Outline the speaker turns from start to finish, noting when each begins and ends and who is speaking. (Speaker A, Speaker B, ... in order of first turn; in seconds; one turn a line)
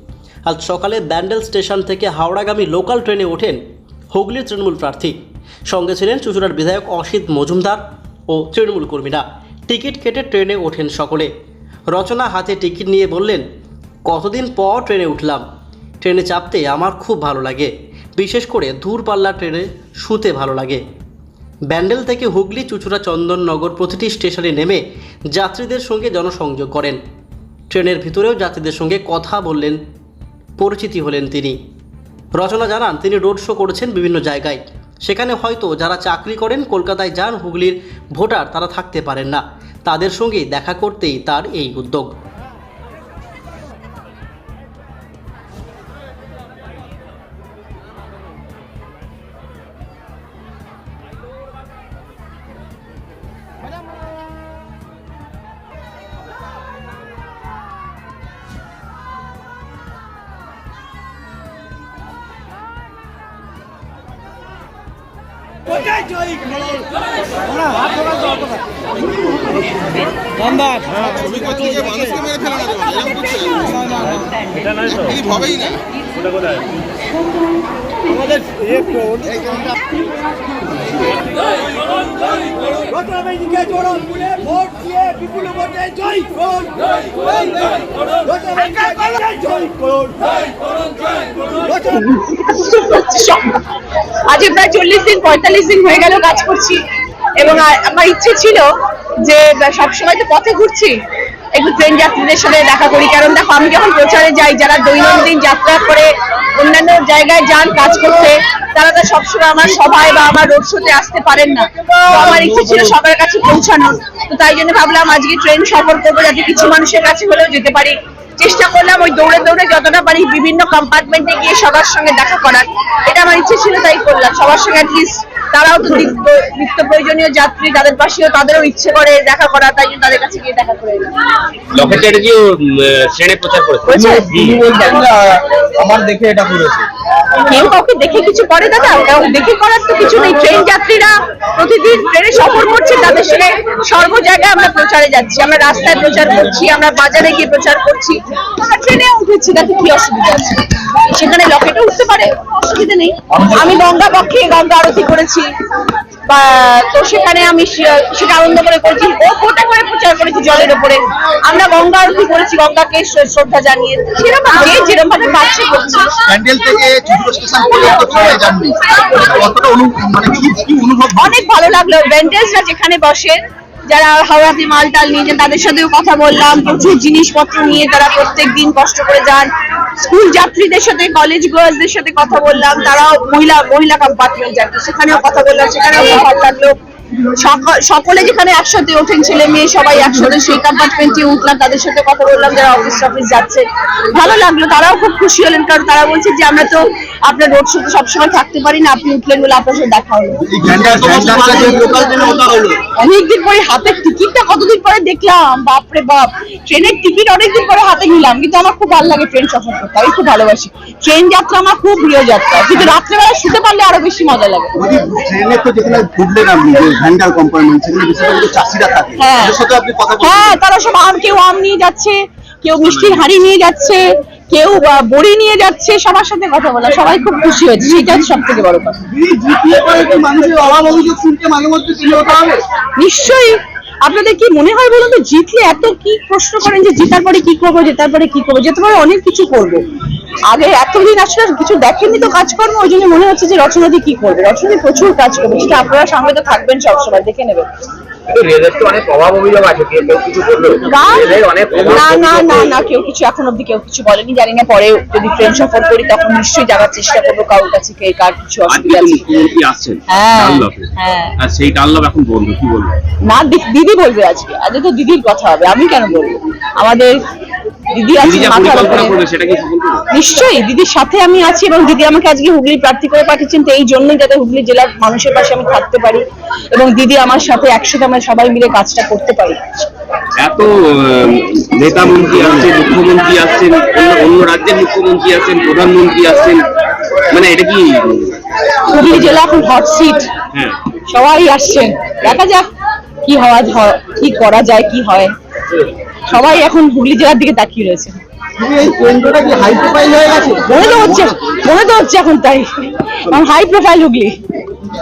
Speaker A: 0.5-3.6
Speaker A: 4.1-5.2
Speaker A: 5.7-11.3
Speaker A: 11.9-13.4
Speaker A: 14.0-15.4
Speaker A: 16.0-20.8
Speaker A: 21.7-27.0
Speaker A: 27.7-29.8
Speaker A: 30.6-31.6
Speaker A: 32.3-42.1
Speaker B: 88.3-89.7
Speaker B: 91.5-93.7
Speaker B: 94.3-96.8
Speaker B: 97.4-98.7
Speaker B: 99.2-101.0
Speaker B: 101.5-131.1
Speaker C: 112.1-112.3
Speaker C: 131.7-134.6
Speaker B: 133.9-135.1
Speaker D: 134.0-136.8
Speaker B: 137.5-155.5
Speaker B: 156.3-166.2
Speaker E: 166.2-171.4
Speaker B: 171.2-186.8
Speaker B: 187.3-200.4
Speaker E: 200.5-202.8
Speaker D: 200.8-202.0
Speaker B: 201.1-202.3
Speaker B: 203.0-214.7
Speaker E: 214.8-220.6
Speaker B: 219.2-219.6
Speaker B: 220.2-229.0
Speaker C: 222.8-223.2
Speaker E: 229.1-232.6
Speaker B: 233.0-239.8
Speaker B: 240.5-247.7
Speaker C: 248.3-252.7
Speaker B: 250.9-259.2
Speaker C: 258.7-262.9
Speaker B: 260.1-261.3
Speaker B: 263.2-267.1
Speaker B: 267.9-269.1
Speaker C: 268.2-270.0
Speaker B: 270.1-279.6
Speaker C: 280.4-286.6
Speaker C: 287.3-288.4
Speaker B: 288.9-290.3
Speaker C: 290.5-290.8
Speaker B: 291.1-292.7
Speaker B: 293.2-295.3
Speaker B: 296.3-298.2
Speaker E: 298.6-301.3
Speaker B: 300.7-304.4